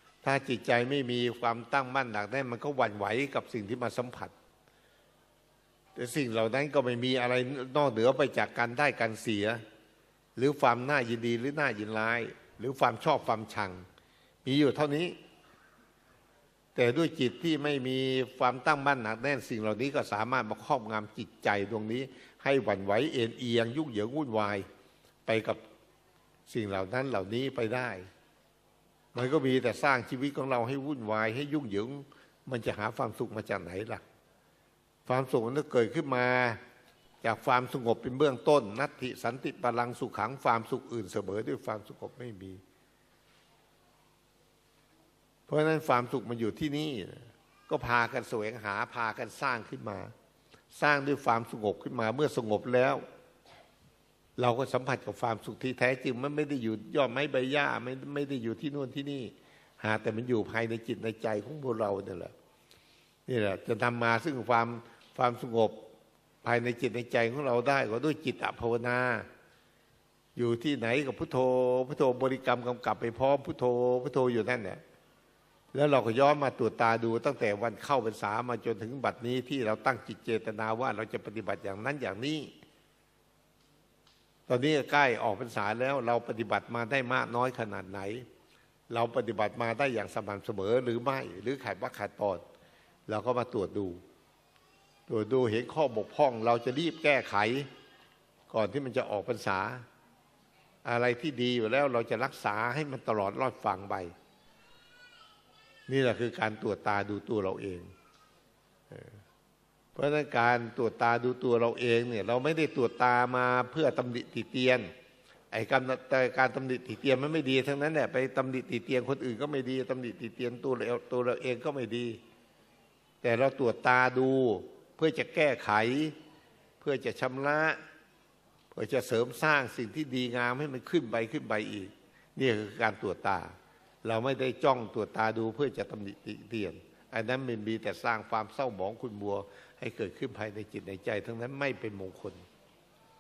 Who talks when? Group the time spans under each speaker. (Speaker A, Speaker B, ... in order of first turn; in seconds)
Speaker A: 0.2-4.3, 6.0-9.6, 10.4-13.9, 14.4-15.2, 16.8-24.7, 25.3-25.6, 26.5-28.1, 29.1-34.0, 35.1-36.6, 37.2-42.6, 45.5-50.1, 50.7-53.0, 54.4-62.3, 63.3-65.9, 66.4-69.3, 70.4-74.8, 75.7-82.5, 84.5-88.3, 88.9-92.4, 93.1-94.0, 95.1-97.7, 98.5-99.8, 100.8-104.1, 105.9-107.9, 108.9-109.2, 110.0-114.9, 115.5-122.2, 123.2-126.2, 126.8-127.8, 128.7-133.5, 134.0-142.4